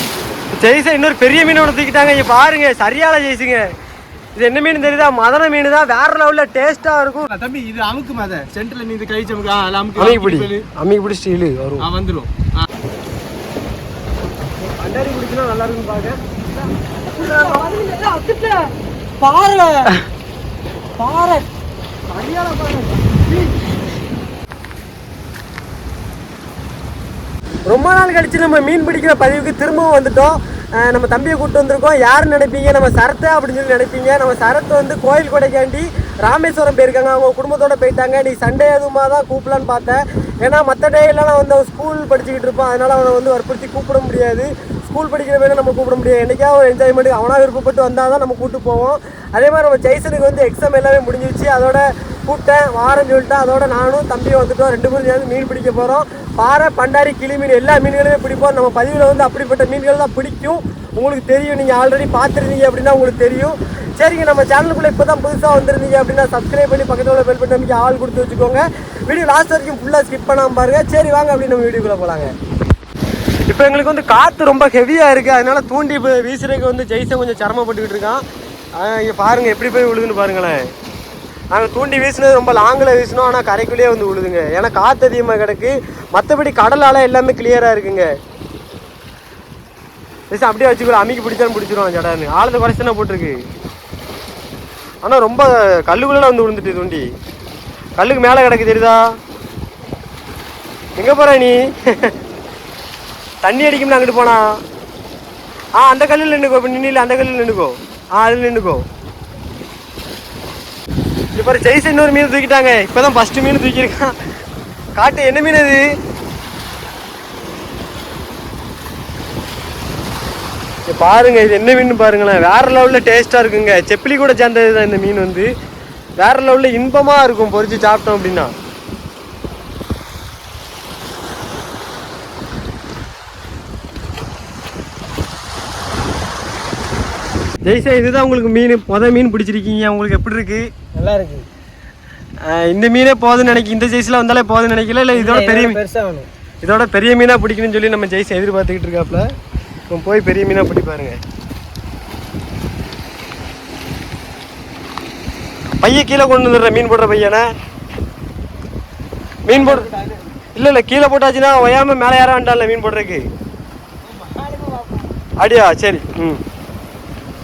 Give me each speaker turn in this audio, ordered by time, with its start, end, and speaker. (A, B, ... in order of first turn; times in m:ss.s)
0:00.6-0:03.6 A
0:04.4-0:07.3 A
0:07.3-0:10.6 B
0:10.0-0:11.8 A
0:11.8-0:12.7 B
0:14.6-0:16.2 A
0:17.1-0:18.6 A
0:19.2-0:19.9 A
0:21.0-0:21.4 A
0:22.1-0:23.5 A
0:27.6-1:12.3 A
1:13.5-1:18.2 A
1:18.8-1:20.6 A
1:21.5-1:28.1 A
1:30.3-1:33.4 A
1:35.0-1:37.0 A
1:38.0-1:39.0 A
1:41.0-1:42.1 A
1:43.4-1:44.6 A
1:45.8-1:48.8 A
1:51.3-1:54.1 A
1:55.0-1:55.8 A
2:00.9-2:05.5 A
2:06.2-2:08.5 A
2:17.6-2:20.7 A
2:20.9-2:21.4 C
2:22.5-2:25.8 A
2:25.1-2:26.3 C
2:26.6-2:29.2 A
2:29.9-2:31.2 A
2:35.8-2:37.4 A
2:39.5-2:39.9 A
2:39.5-2:40.2 C
2:40.5-2:43.2 A
2:44.1-2:45.1 C
2:45.4-2:46.4 A